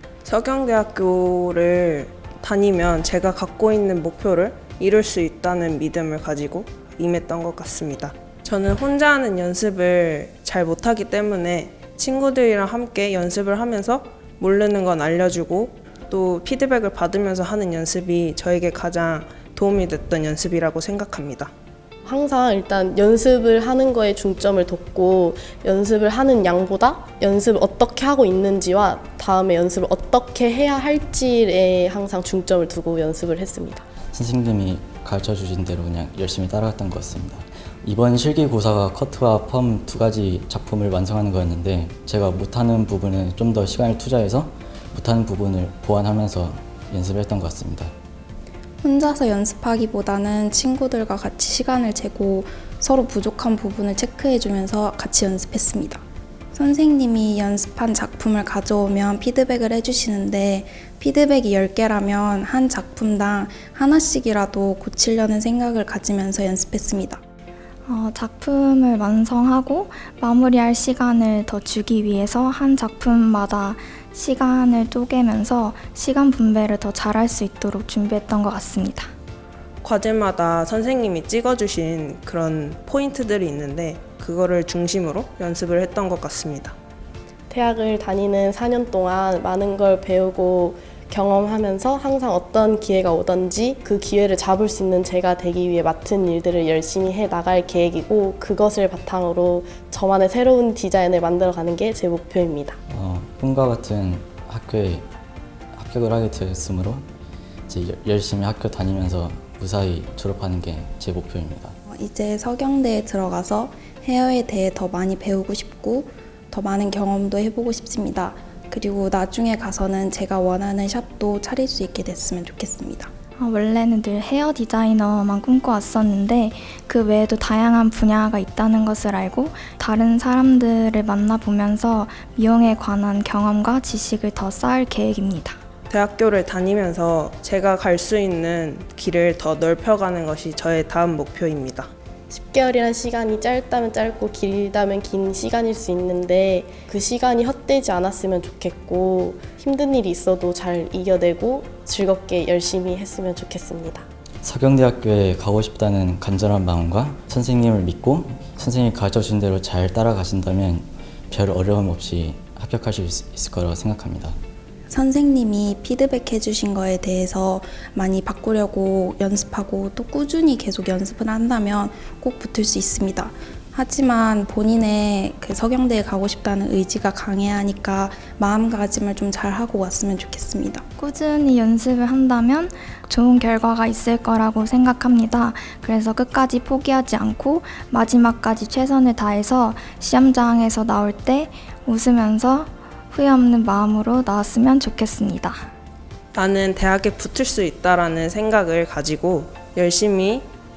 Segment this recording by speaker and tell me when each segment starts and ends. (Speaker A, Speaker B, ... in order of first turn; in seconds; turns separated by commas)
Speaker A: 0.2-21.5, Speaker B: 22.0-33.8, Speaker C: 34.1-47.9, Speaker D: 48.8-67.2, Speaker E: 67.9-79.1, Speaker A: 79.8-86.7, Speaker B: 87.5-102.8, Speaker C: 102.9-105.0, Speaker C: 105.7-107.0, Speaker C: 107.7-111.8, Speaker D: 111.9-123.1, Speaker E: 123.4-135.6, Speaker A: 135.9-141.9, Speaker B: 142.3-154.1, Speaker C: 154.4-164.3, Speaker D: 164.9-180.8, Speaker E: 181.0-195.7, Speaker A: 196.3-200.5